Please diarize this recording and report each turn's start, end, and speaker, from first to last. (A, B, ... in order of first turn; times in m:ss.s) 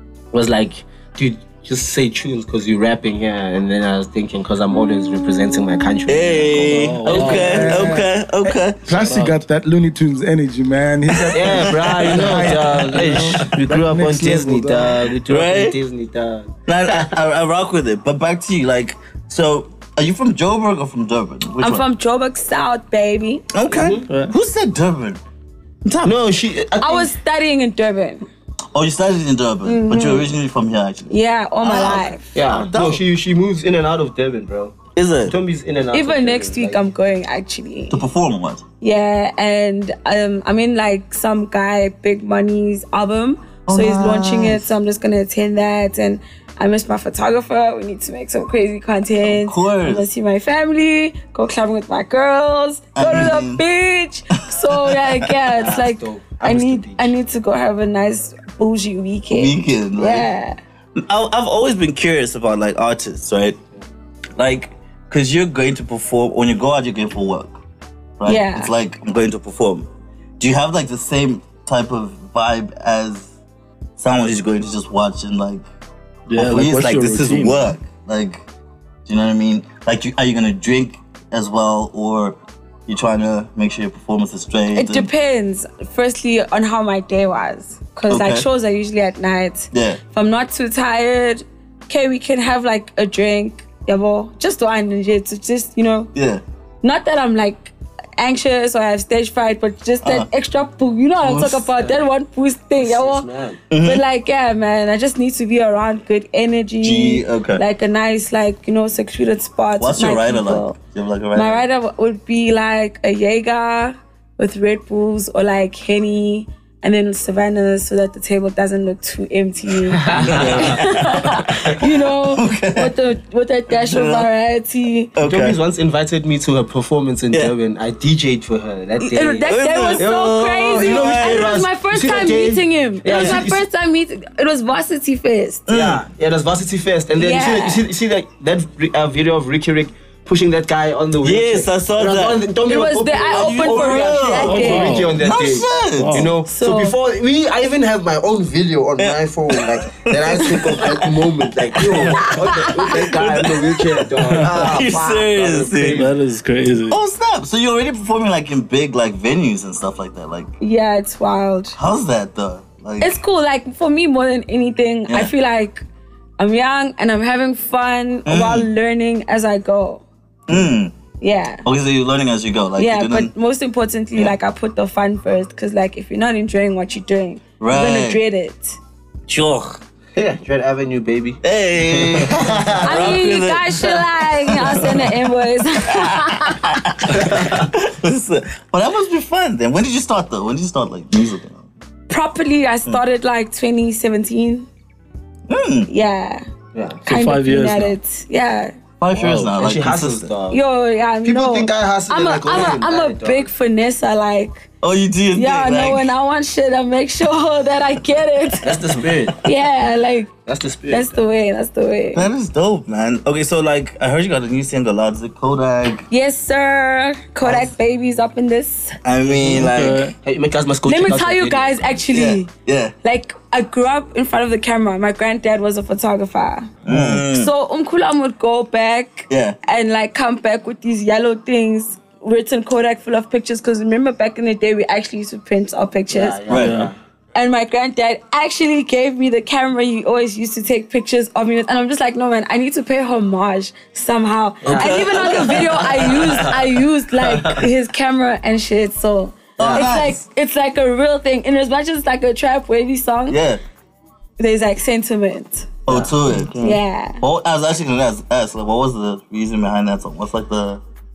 0:00.3-0:07.4 A
0:06.1-0:09.0 B
0:06.6-0:08.1 C
0:07.1-0:08.1 D
0:08.8-0:15.2 D
0:08.9-0:09.4 C
0:11.1-0:12.5 B
0:11.3-0:17.1 A
0:15.3-0:15.8 B
0:16.7-0:21.8 B
0:21.6-0:23.4 E
0:23.5-0:25.2 B
0:23.7-0:24.1 A
0:24.1-0:24.4 C
0:25.8-0:26.2 B
0:26.0-0:27.1 A
0:26.8-0:28.3 E
0:28.7-0:33.0 B
0:29.6-0:30.3 E
0:31.1-0:32.3 E
0:32.3-0:34.8 A
0:35.0-0:35.4 B
0:35.3-0:36.9 A
0:35.9-0:38.0 E
0:37.9-0:38.6 B
0:38.8-1:00.6 E
0:43.7-0:44.8 B
0:49.2-0:50.1 B
0:53.0-0:53.6 B
0:54.6-0:55.3 B
0:55.5-0:57.2 A
0:59.3-1:00.3 B
1:01.0-1:03.6 B
1:04.4-1:07.6 B
1:08.2-1:09.9 B
1:08.3-1:08.7 E
1:10.4-1:13.3 B
1:14.0-1:15.6 B
1:16.3-1:17.7 C
1:16.4-1:18.4 B
1:19.1-1:25.1 B
1:24.7-1:36.1 E
1:28.1-1:28.5 B
1:29.7-1:30.0 B
1:36.1-1:36.4 B
1:36.8-1:50.8 E
1:40.0-1:40.3 B
1:41.2-1:41.6 B
1:42.8-1:43.6 A
1:43.7-1:44.0 B
1:46.8-1:47.6 B
1:49.8-1:51.6 B
1:51.3-2:05.1 E
2:00.0-2:00.8 A
2:00.1-2:01.2 C
2:00.2-2:00.8 B
2:01.8-2:03.0 B
2:03.7-2:04.3 B
2:05.2-2:05.6 B
2:05.2-2:13.6 A
2:09.0-2:15.7 E
2:09.5-2:11.6 B
2:13.1-2:13.4 B
2:15.7-2:16.1 B
2:15.7-2:36.1 A
2:17.2-2:17.9 E
2:21.2-2:22.4 B
2:22.7-2:25.1 E
2:23.3-2:26.3 B
2:24.4-2:25.2 C
2:26.0-2:26.4 C
2:26.4-2:27.0 E
2:29.0-2:31.0 B
2:31.8-2:36.1 B
2:32.0-2:33.0 E
2:34.2-2:34.9 C
2:35.8-2:37.0 C
2:36.9-2:40.5 B
2:40.6-2:41.8 E
2:41.8-2:43.2 B
2:43.0-2:45.8 E
2:46.4-2:50.0 E
2:48.3-2:48.7 B
2:50.5-2:51.0 B
2:51.2-2:51.6 E
2:51.6-2:53.3 B
2:52.8-2:58.8 E
2:57.6-2:58.2 B
2:59.3-2:59.8 B
3:00.2-3:03.1 A
3:01.4-3:05.0 B
3:02.8-3:06.7 E
3:05.9-3:11.6 B
3:07.2-3:07.7 A
3:12.1-3:14.7 E
3:15.5-3:15.9 B
3:15.9-3:16.4 E
3:16.7-3:17.0 A
3:17.0-3:18.0 C
3:17.1-3:18.8 E
3:19.0-3:20.3 B
3:19.2-3:19.6 C
3:19.5-3:20.6 A
3:20.5-3:24.7 E
3:21.2-3:23.5 A
3:24.8-3:26.1 B
3:25.3-3:28.8 E
3:28.6-3:29.4 A
3:29.4-3:30.3 E
3:30.5-3:31.2 A
3:30.9-3:32.3 E
3:32.1-3:36.1 B
3:36.1-3:39.0 E
3:37.4-3:37.7 B
3:39.0-3:40.1 B
3:39.3-3:40.2 C
3:40.2-3:42.0 A
3:40.8-3:42.5 E
3:42.1-3:42.9 B
3:43.0-3:56.5 E
3:46.8-3:47.5 B
3:49.3-3:49.6 B
3:56.1-3:57.0 A
3:56.5-3:56.9 B
3:56.5-3:56.9 C
3:57.4-4:13.4 E
4:04.6-4:07.7 A
4:04.7-4:06.5 B
4:09.6-4:10.2 B
4:09.6-4:10.0 A
4:13.3-4:13.6 B
4:14.4-4:15.7 E
4:15.9-4:20.8 B
4:15.9-4:16.2 A
4:16.6-4:17.2 E